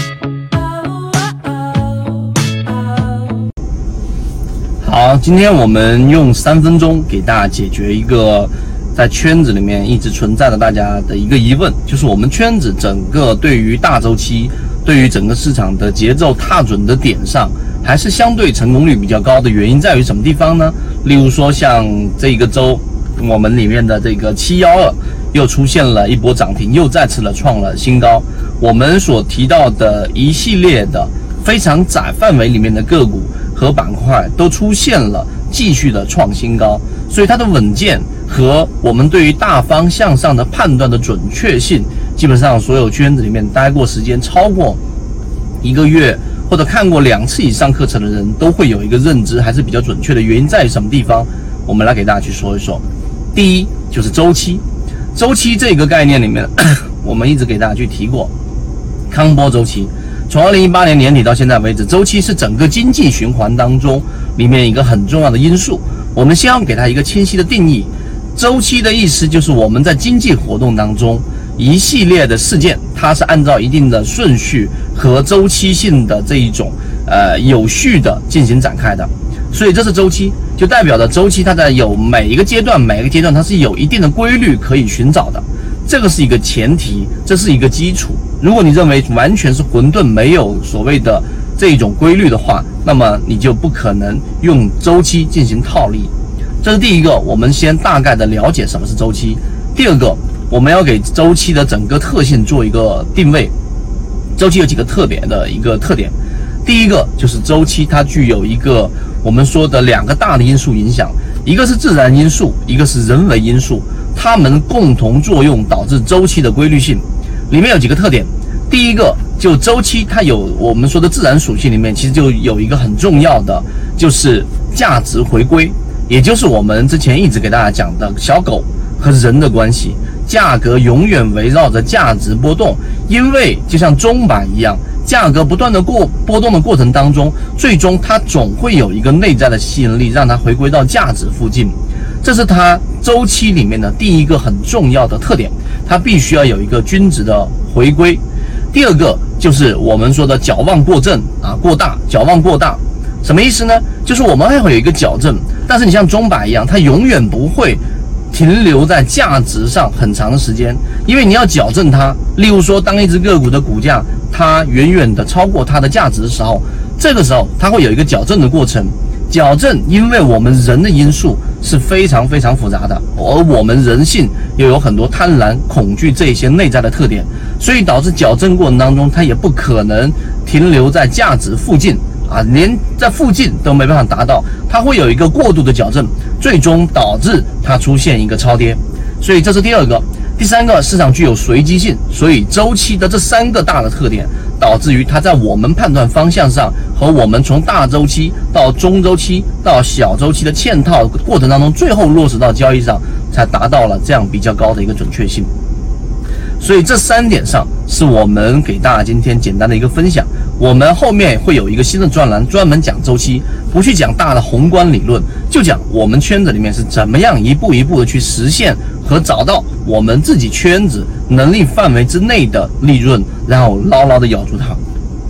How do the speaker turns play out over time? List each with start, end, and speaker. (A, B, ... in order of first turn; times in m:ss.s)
0:04.8-0:44.8 A
0:45.6-0:52.8 A
0:53.3-0:54.6 A
0:55.1-0:58.3 A
0:59.1-1:43.5 A
1:44.4-1:46.1 A
1:46.6-2:37.8 A
2:38.3-3:25.5 A
3:26.6-3:44.8 A